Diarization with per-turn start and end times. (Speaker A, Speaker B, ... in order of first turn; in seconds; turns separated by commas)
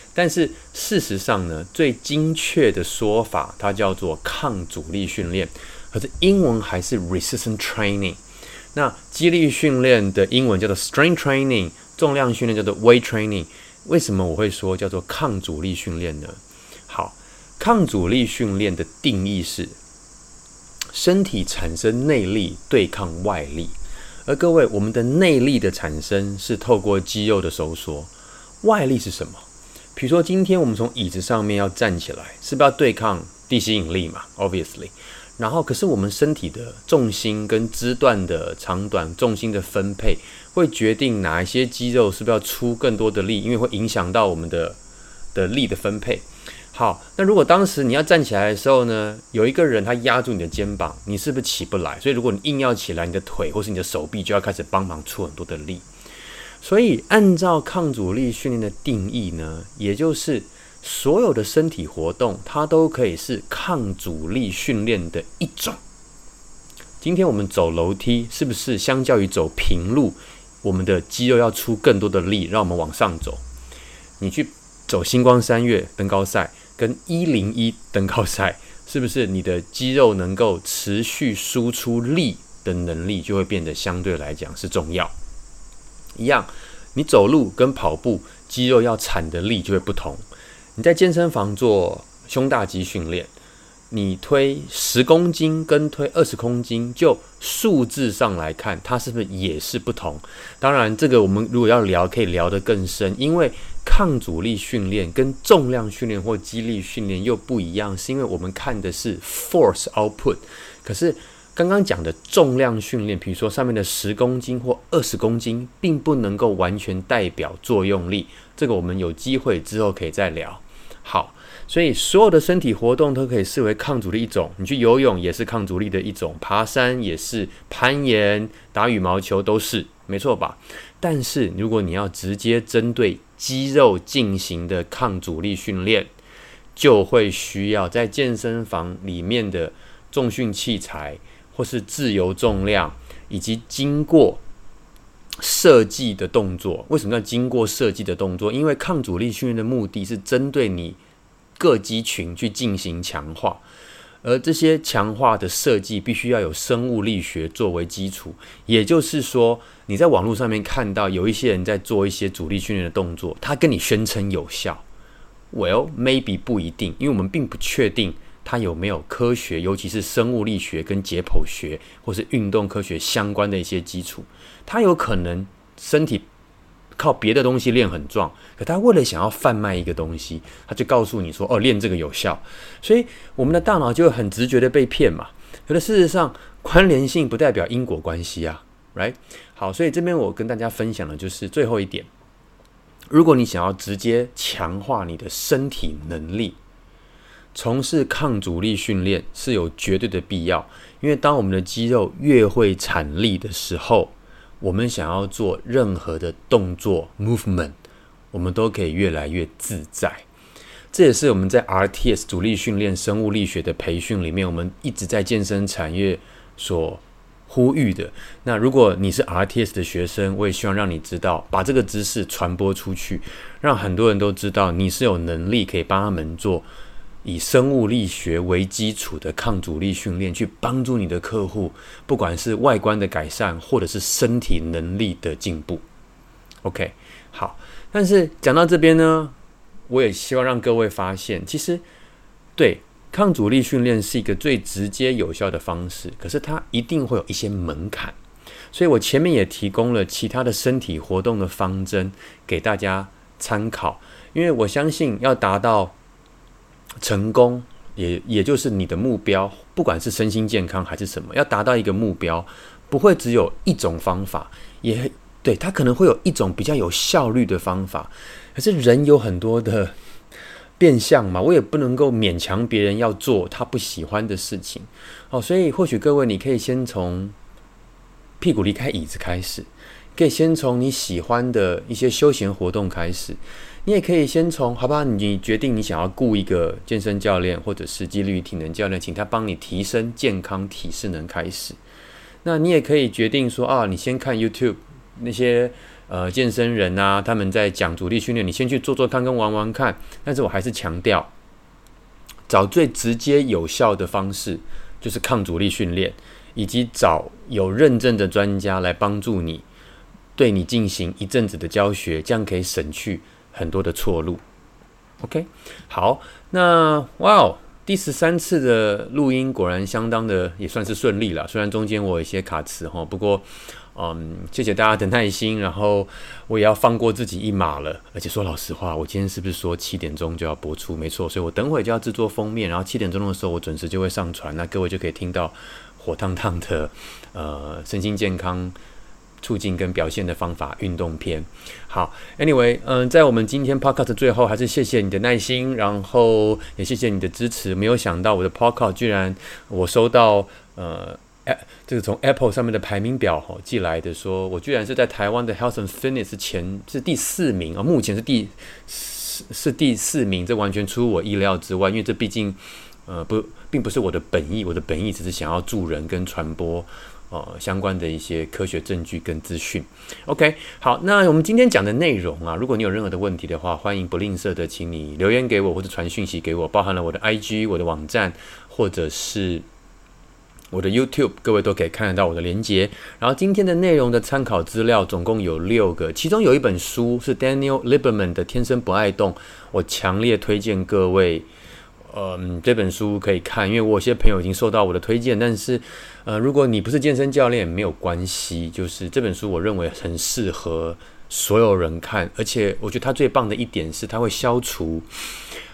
Speaker A: 0.1-8.2, Speaker A: 8.7-19.8, Speaker A: 20.9-28.1, Speaker A: 28.6-44.8, Speaker A: 45.3-55.8, Speaker A: 56.6-65.8, Speaker A: 67.0-73.4, Speaker A: 74.2-85.1, Speaker A: 86.2-90.2, Speaker A: 90.8-93.3, Speaker A: 93.9-136.1, Speaker A: 136.8-144.4, Speaker A: 145.4-151.0, Speaker A: 151.6-153.6, Speaker A: 154.2-164.8, Speaker A: 165.5-176.2, Speaker A: 177.0-192.1, Speaker A: 193.1-196.6, Speaker A: 197.5-207.8, Speaker A: 208.3-210.2, Speaker A: 210.9-226.7, Speaker A: 227.2-235.8, Speaker A: 236.6-239.3, Speaker A: 239.9-241.8, Speaker A: 242.6-248.2, Speaker A: 248.7-255.9, Speaker A: 257.0-269.9, Speaker A: 270.8-277.3, Speaker A: 278.4-291.8, Speaker A: 292.4-301.3, Speaker A: 302.5-309.6, Speaker A: 310.4-314.4, Speaker A: 315.2-338.8, Speaker A: 339.4-379.6, Speaker A: 380.7-391.5, Speaker A: 392.1-405.1